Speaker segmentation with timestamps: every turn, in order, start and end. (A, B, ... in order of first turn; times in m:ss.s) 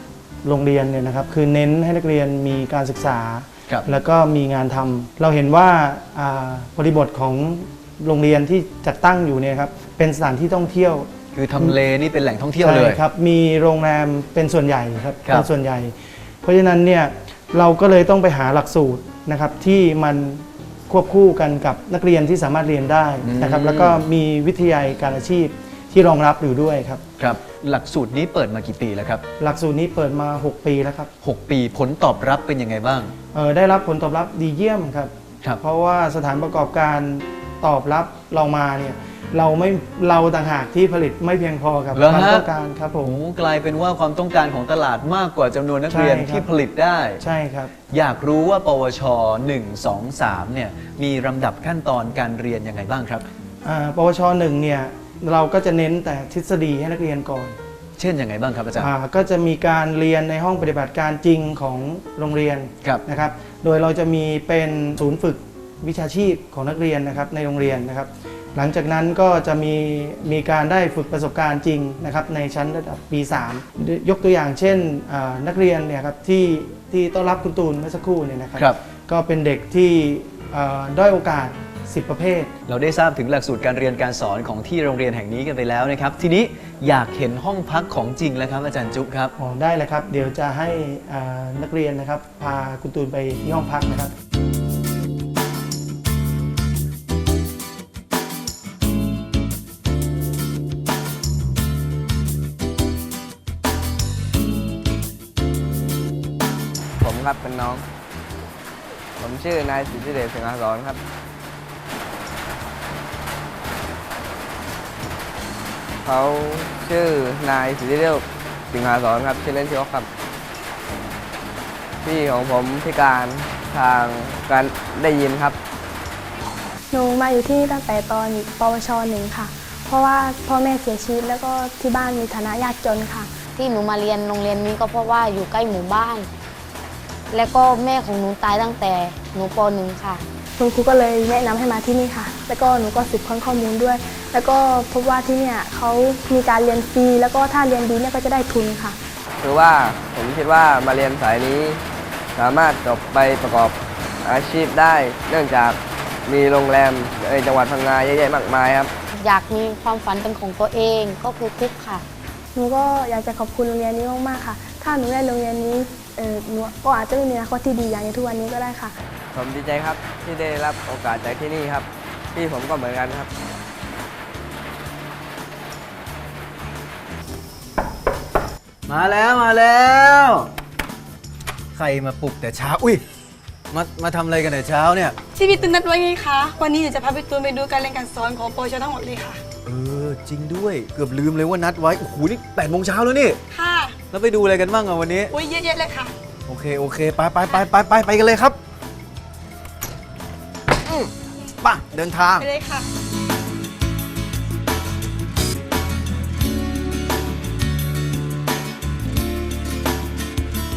0:00.4-0:11.8 A
0:11.3-0:13.0 B
0:12.6-0:27.0 A
0:23.2-0:24.0 B
0:27.2-0:29.2 B
0:29.4-0:31.1 A
0:31.2-0:33.1 B
0:33.3-0:43.2 A
0:41.9-0:42.4 B
0:43.0-0:47.2 B
0:45.9-0:46.4 A
0:47.2-0:47.7 A
0:47.9-0:53.2 B
0:53.6-0:57.6 A
0:58.0-0:58.9 B
0:58.8-1:22.5 A
1:22.7-1:29.3 B
1:29.4-1:34.1 A
1:47.0-1:47.8 C
1:49.2-1:51.0 C
1:56.0-2:00.1 C
2:02.0-2:05.6 C
2:06.9-2:13.3 D
2:13.6-2:16.3 E
2:17.3-2:20.2 E
2:20.6-2:29.0 D
2:29.4-2:31.8 C
2:32.3-2:38.9 C
2:39.1-2:42.0 E
2:42.5-2:48.9 D
2:49.3-2:53.3 C
2:58.9-3:00.5 B
3:01.7-3:03.0 B
3:03.7-3:05.2 B
3:05.3-3:09.4 F
3:09.6-3:13.4 B
3:13.5-3:14.0 F
3:14.1-3:15.3 B
3:15.3-3:16.1 F
3:16.5-3:18.6 B
3:20.8-3:21.1 B
3:21.6-3:22.5 B
3:22.4-3:22.8 F